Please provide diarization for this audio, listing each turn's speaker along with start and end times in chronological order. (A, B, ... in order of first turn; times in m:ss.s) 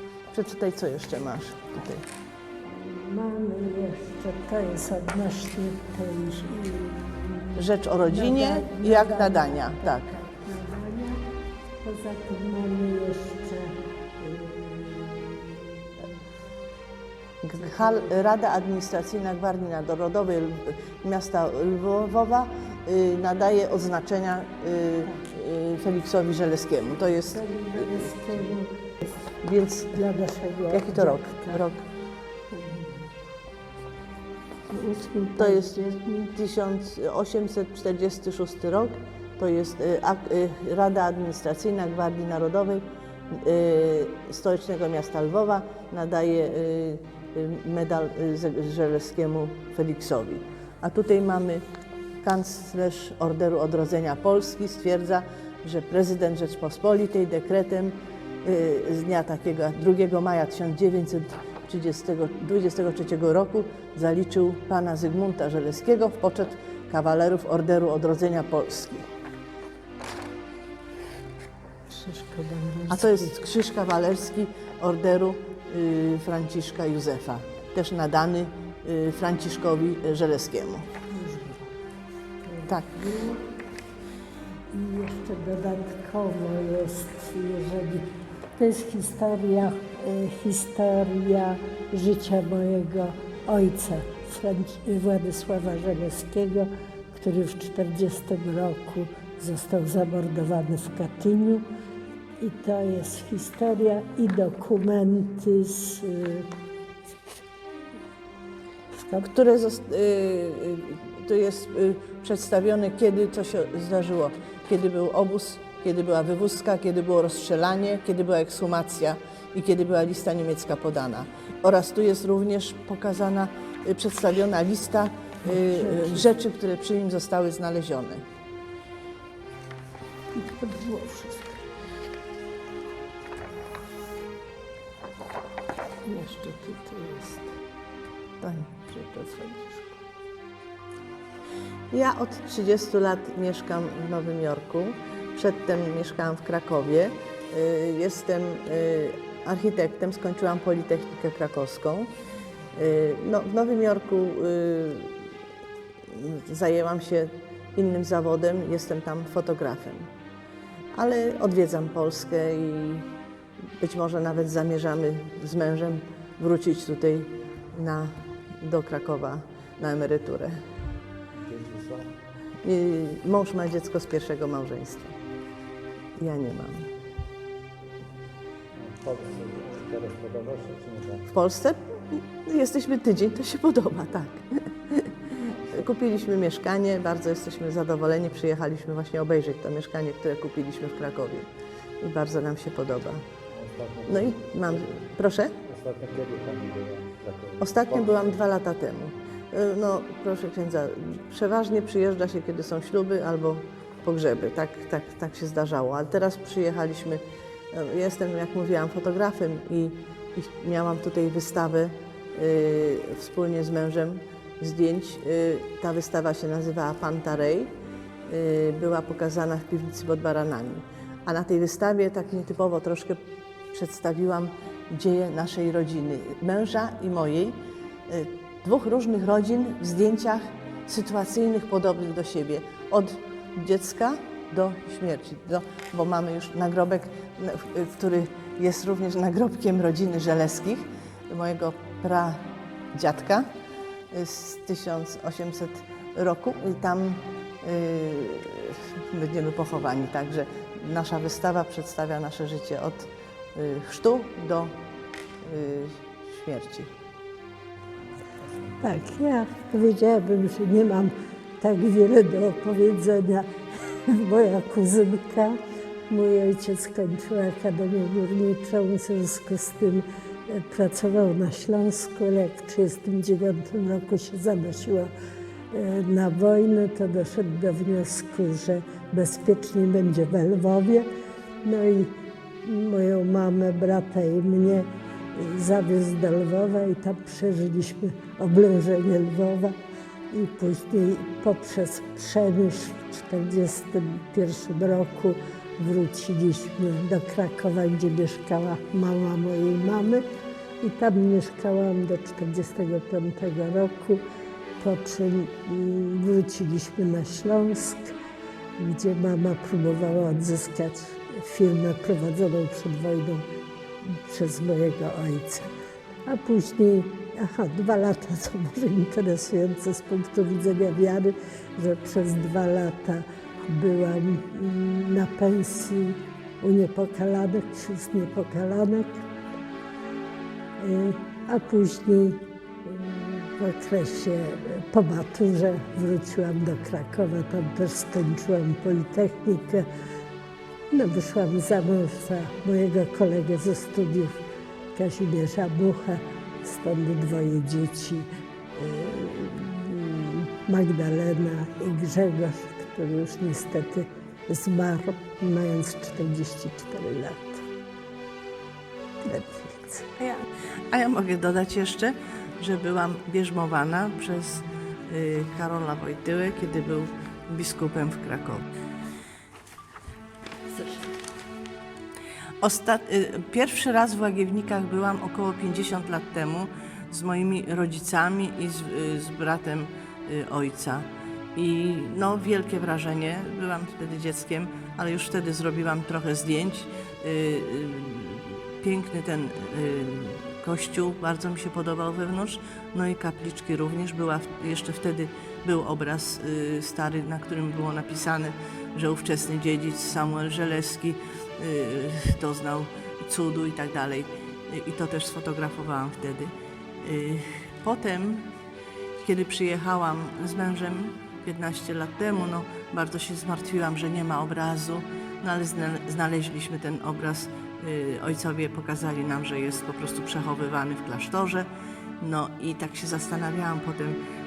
0:00.3-0:02.0 A
0:02.6-0:11.2 B
0:07.6-0:10.1 A
0:11.8-0:15.7 B
0:17.4-0:27.4 A
0:27.3-0:29.1 B
0:29.4-0:30.0 A
0:29.9-0:31.7 B
0:30.7-0:31.8 A
0:32.5-0:33.1 B
0:34.7-0:35.6 B
0:35.4-0:51.6 A
0:52.2-1:09.0 A
1:11.9-1:13.3 B
1:12.9-1:20.8 A
1:21.1-1:21.7 B
1:22.4-1:23.4 B
1:22.7-1:22.9 A
1:24.7-1:41.6 B
1:42.4-1:46.5 B
1:48.9-1:49.3 B
1:49.2-2:08.2 A
2:05.5-2:06.2 B
2:10.3-2:11.6 B
2:16.1-2:17.2 A
2:16.1-2:17.4 B
2:18.4-2:19.9 A
2:21.9-2:32.1 A
2:32.8-2:35.2 A
2:36.1-2:40.0 A
2:40.9-2:43.1 A
2:43.8-2:48.1 A
2:48.6-2:50.5 A
2:51.4-2:52.0 C
2:52.6-2:55.1 A
2:56.2-2:56.9 A
2:58.8-3:01.2 C
3:01.3-3:11.5 A
3:12.0-3:13.2 A
3:13.5-3:14.8 C
3:14.1-3:15.6 A
3:15.6-3:18.2 C
3:17.6-3:27.2 A
3:27.7-3:37.7 A
3:38.3-3:43.2 A
3:43.7-3:47.6 A
3:48.1-4:02.4 A
4:02.9-4:03.4 A
4:04.1-4:14.7 A
4:15.4-4:16.9 A
4:18.8-4:23.5 B
4:24.1-4:25.6 B
4:26.1-4:35.1 B
4:35.7-4:41.1 B
4:41.6-4:49.7 B
4:50.3-5:00.2 B
5:00.8-5:04.2 B
5:04.8-5:08.1 B
5:08.8-5:13.4 B
5:14.0-5:15.7 B
5:16.2-5:29.3 B
5:30.8-5:39.9 B
5:40.9-5:44.4 B
5:44.9-5:57.6 B
5:59.2-6:00.1 B
6:00.2-6:08.6 A
6:12.6-6:48.5 A
6:49.2-7:01.7 A
7:02.2-7:04.2 A